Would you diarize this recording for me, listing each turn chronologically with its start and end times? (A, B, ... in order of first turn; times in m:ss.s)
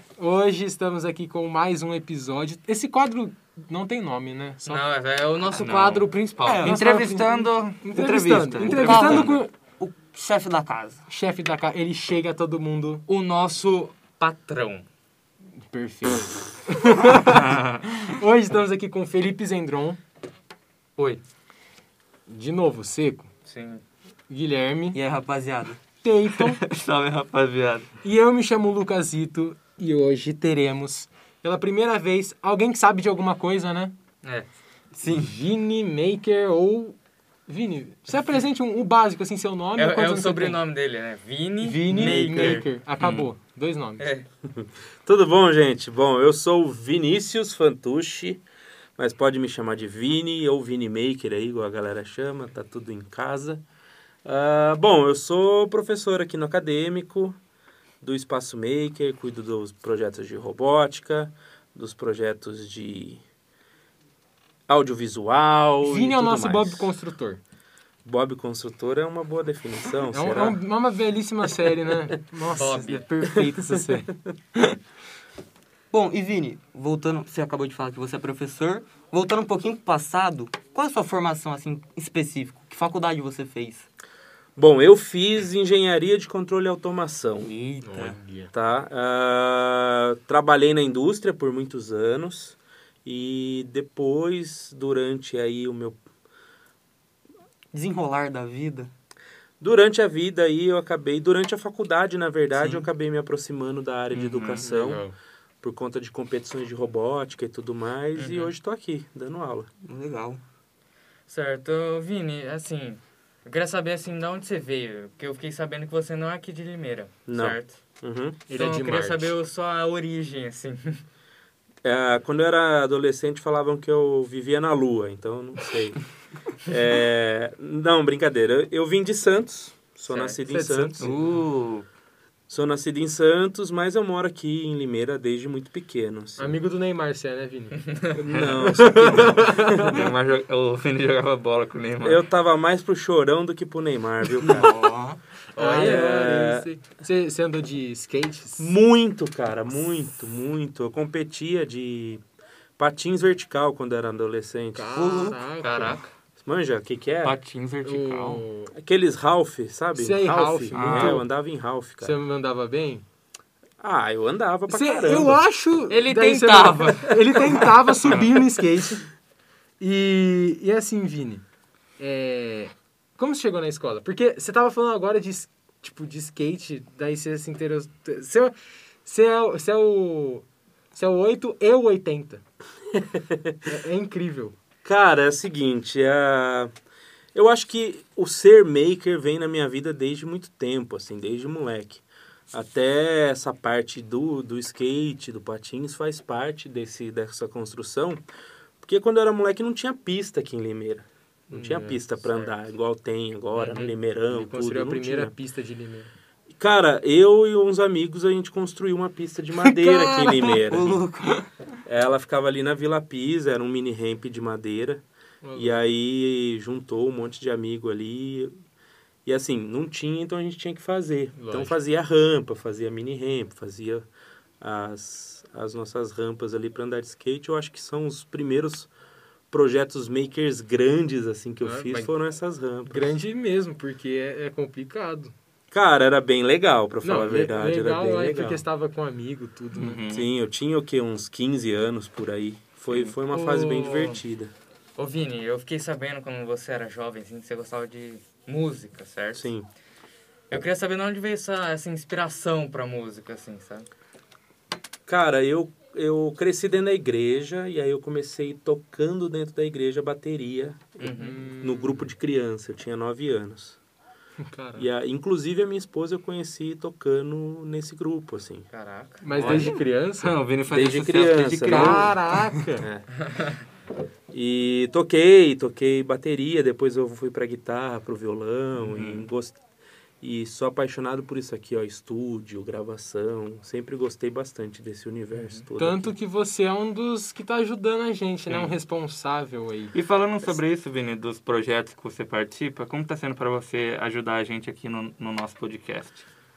0:00.2-0:04.8 A
0:04.6-0:06.8 B
0:05.5-0:09.5 A
0:05.6-0:06.0 C
0:06.4-0:11.0 D
0:06.8-0:07.9 C
0:08.6-0:09.3 B
0:08.9-0:09.3 C
0:11.1-0:13.0 A
0:13.1-0:14.9 B
0:15.7-0:20.0 A
0:17.3-0:17.7 C
0:21.0-0:21.2 B
0:22.3-0:23.3 A
0:23.4-0:23.8 B
0:24.3-0:25.0 A
0:24.9-0:25.8 D
0:26.0-0:26.6 A
0:26.3-0:27.9 D
0:28.0-0:33.9 A
0:34.2-0:34.5 B
0:34.9-0:35.3 D
0:35.0-0:40.6 A
0:39.8-0:42.6 B
0:41.6-0:44.1 A
0:41.9-0:42.7 D
0:43.0-0:43.3 C
0:44.0-0:44.3 B
0:44.5-0:48.4 E
0:49.0-0:53.6 E
0:54.2-0:57.4 E
0:58.0-1:03.2 E
1:04.7-1:06.9 E
1:05.8-1:07.4 A
1:08.0-1:10.6 E
1:10.1-1:14.2 A
1:12.5-1:13.0 B
1:15.9-1:23.8 D
1:24.6-1:27.5 E
1:27.4-1:28.2 D
1:27.8-1:28.5 A
1:28.5-1:36.0 E
1:37.7-1:38.9 D
1:39.6-1:45.0 E
1:42.5-1:42.9 D
1:44.1-1:44.7 C
1:44.6-1:45.1 A
1:45.6-1:49.7 E
1:48.1-1:48.5 B
1:49.8-1:50.4 D
1:51.3-1:57.8 B
1:57.3-1:58.4 E
1:58.5-1:59.4 A
1:58.5-2:01.0 B
2:01.8-2:06.0 E
2:06.6-2:11.2 E
2:10.1-2:10.4 B
2:10.4-2:11.3 A
2:11.0-2:11.8 C
2:12.5-2:16.6 E
2:16.4-2:19.9 A
2:18.2-2:20.1 E
2:18.3-2:22.2 C
2:22.0-2:24.8 E
2:24.4-2:25.2 D
2:25.5-2:26.2 B
2:25.5-2:28.8 A
2:25.7-2:26.7 E
2:28.6-2:32.2 E
2:32.8-2:35.4 E
2:34.7-2:36.0 A
2:34.9-2:35.4 D
2:35.6-2:36.1 B
2:36.4-2:37.4 E
2:37.2-2:38.4 B
2:37.8-2:38.7 A
2:38.7-2:42.2 E
2:40.0-2:41.3 A
2:40.7-2:41.2 C
2:42.0-2:43.0 A
2:43.8-2:45.4 E
2:44.7-2:49.1 A
2:45.9-2:47.6 B
2:49.8-2:51.4 A
2:52.0-3:02.4 A
3:03.0-3:03.5 E
3:03.6-3:04.5 A
3:04.8-3:06.7 E
3:07.3-3:18.2 E
3:18.8-3:25.3 E
3:21.5-3:22.5 A
3:23.6-3:23.9 B
3:24.3-3:26.1 A
3:26.6-3:31.0 E
3:29.6-3:30.8 A
3:30.7-3:31.5 D
3:31.8-3:35.0 E
3:35.4-3:35.8 A
3:35.5-3:38.5 E
3:39.2-3:44.0 E
3:41.4-3:41.8 A
3:44.6-3:48.9 E
3:49.5-3:53.1 E
3:51.6-3:52.1 A
3:52.9-3:55.3 A
3:55.7-3:58.6 E
3:57.0-4:00.0 A
3:59.7-4:00.3 C
4:00.1-4:04.5 E
4:02.9-4:03.2 B
4:03.3-4:04.2 A
4:05.0-4:09.5 B
4:09.3-4:09.7 E
4:10.5-4:13.9 B
4:15.1-4:23.8 E
4:21.0-4:21.5 B
4:21.2-4:22.1 A
4:24.4-4:24.9 A
4:24.8-4:28.7 E
4:28.7-4:29.7 B
4:29.2-4:30.4 A
4:29.3-4:29.7 E
4:29.6-4:32.1 C
4:30.7-4:32.1 E
4:31.7-4:32.8 A
4:32.8-4:33.1 E
4:34.3-4:39.6 E
4:38.8-4:39.3 C
4:40.2-4:46.1 E
4:45.3-4:45.6 B
4:45.8-4:49.9 A
4:48.5-4:48.8 C
4:49.9-4:56.2 C